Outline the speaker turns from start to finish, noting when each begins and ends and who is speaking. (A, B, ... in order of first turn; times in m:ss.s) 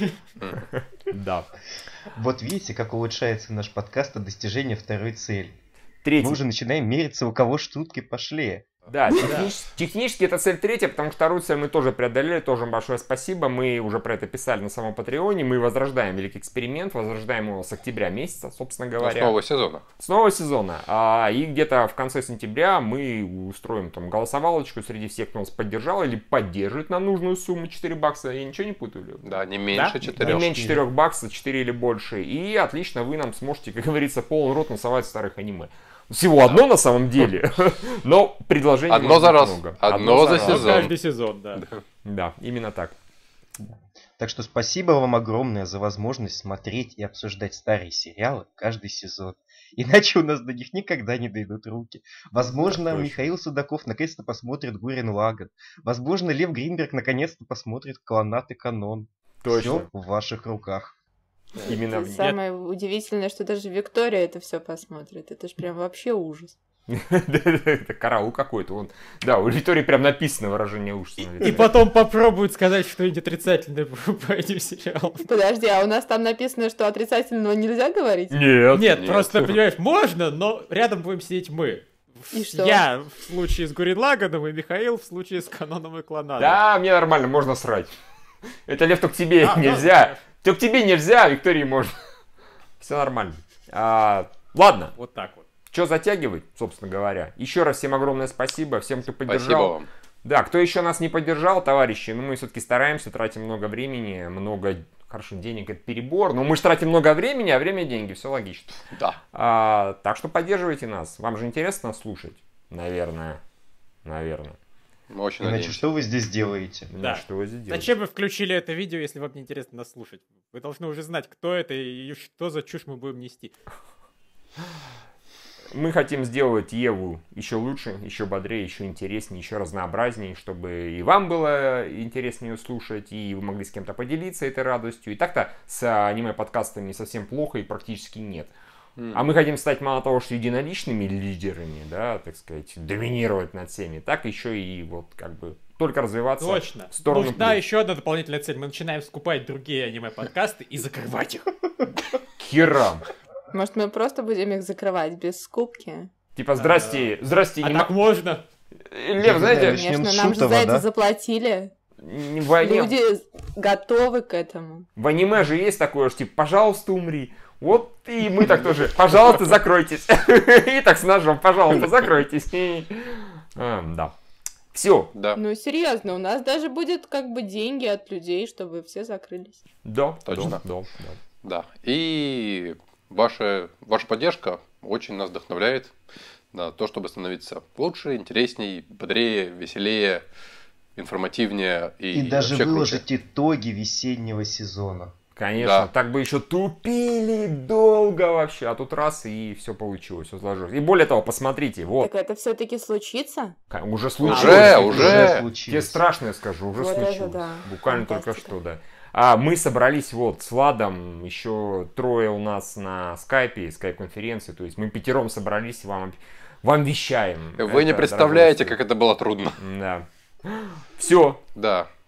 0:00.9-0:01.5 A
0:02.1-0:05.5 B
0:06.0-0:06.4 A
0:06.2-0:08.6 B
0:08.9-0:19.4 A
0:09.2-0:09.5 C
0:19.0-0:19.8 D
0:20.0-0:29.3 A
0:29.2-0:30.5 D
0:29.7-0:30.0 C
0:30.1-0:40.8 A
0:30.2-0:30.8 B
0:38.9-0:40.9 D
0:40.1-0:41.6 C
0:41.6-0:41.8 D
0:42.0-0:42.9 A
0:44.2-1:00.9 B
0:52.6-0:53.3 A
0:59.4-0:59.9 A
1:01.6-1:06.6 E
1:01.6-1:02.4 A
1:06.9-1:11.8 A
1:11.4-1:15.3 C
1:15.2-1:18.4 E
1:18.3-1:18.9 A
1:18.7-1:26.6 C
1:18.8-1:19.6 D
1:22.3-1:22.9 E
1:26.4-1:27.9 A
1:28.7-1:32.0 A
1:29.4-1:30.2 C
1:32.8-1:34.9 A
1:35.0-1:35.4 C
1:35.7-1:48.8 A
1:39.2-1:39.9 D
1:48.9-1:49.2 D
1:49.3-1:53.4 A
1:54.0-1:54.6 A
1:55.1-1:55.9 D
1:55.4-1:56.9 B
1:56.9-1:57.9 A
1:57.0-2:03.5 C
2:05.7-2:18.5 A
2:19.0-2:19.2 D
2:19.1-2:27.6 A
2:26.4-2:31.6 C
2:32.4-2:33.0 A
2:33.5-2:36.1 E
2:36.4-2:37.9 A
2:36.6-2:38.4 C
2:38.9-2:39.8 A
2:39.2-2:40.9 B
2:39.5-2:41.7 E
2:42.0-2:43.0 A
2:42.6-2:44.9 E
2:45.0-2:54.1 A
2:54.7-2:55.1 A
2:55.1-2:55.4 D
2:55.4-2:59.6 E
2:59.8-3:01.2 A
3:00.2-3:00.6 D
3:01.4-3:06.0 D
3:06.5-3:10.2 D
3:11.0-3:13.0 D
3:12.1-3:15.1 B
3:15.4-3:22.1 A
3:15.5-3:15.9 D
3:22.0-3:23.6 E
3:23.7-3:38.8 A
3:24.2-3:25.4 D
3:24.3-3:25.1 C
3:24.3-3:26.0 B
3:26.8-3:28.5 E
3:37.6-3:39.6 D
3:39.6-3:41.4 A
3:41.5-3:41.9 D